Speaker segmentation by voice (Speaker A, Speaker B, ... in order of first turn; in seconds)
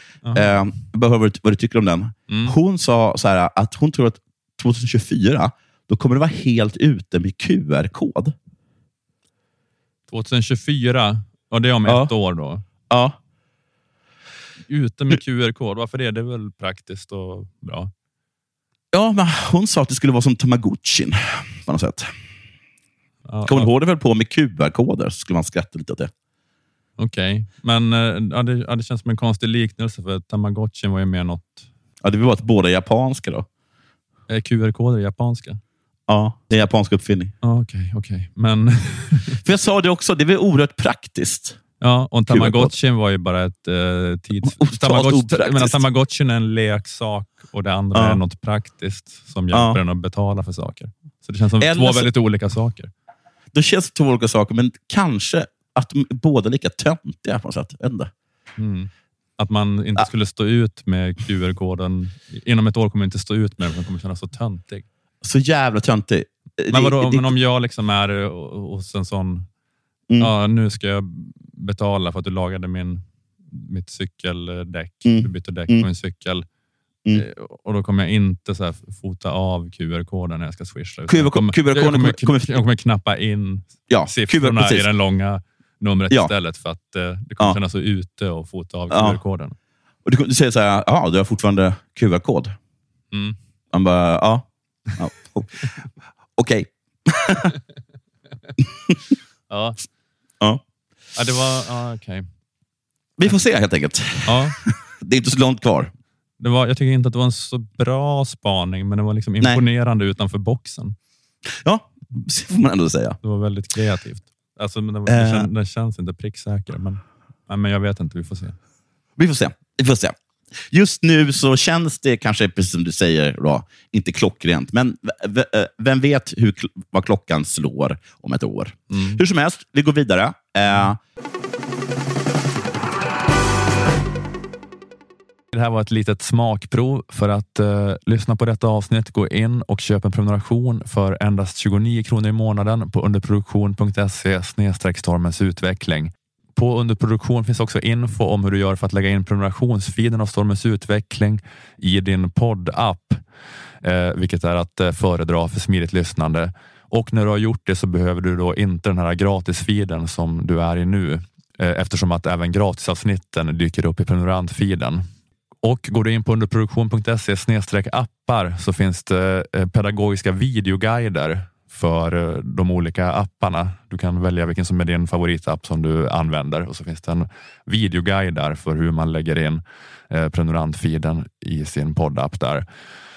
Speaker A: 0.2-0.6, 2.3-2.5, 10.1-12.6, 14.7-17.9, 23.2-23.7, 27.0-31.7, 34.3-35.6, 37.4-39.4, 41.8-52.9, 58.6-64.8, 66.7-69.4, 70.2-76.4, 77.1-89.5, 93.1-93.4, 99.5-99.8, 101.2-102.2, 104.2-104.6, 106.4-111.0, 113.2-118.6, 128.9-129.2, 135.5-153.2, 153.8-165.0, 165.6-182.6
Speaker B: 0.3-8.3, 11.8-12.1, 12.9-13.1, 18.9-22.1, 23.4-26.1, 32.0-33.5, 36.1-37.3, 39.4-41.6, 42.3-42.7, 44.4-45.8, 47.9-48.2, 49.5-49.8, 51.6-52.1, 53.5-58.1, 65.2-67.3, 75.0-75.9, 81.1-82.6, 83.9-84.9, 88.9-89.2, 90.0-92.5, 93.7-97.5, 103.2-105.9, 111.6-113.2, 115.1-115.5, 119.2-120.1, 120.7-131.0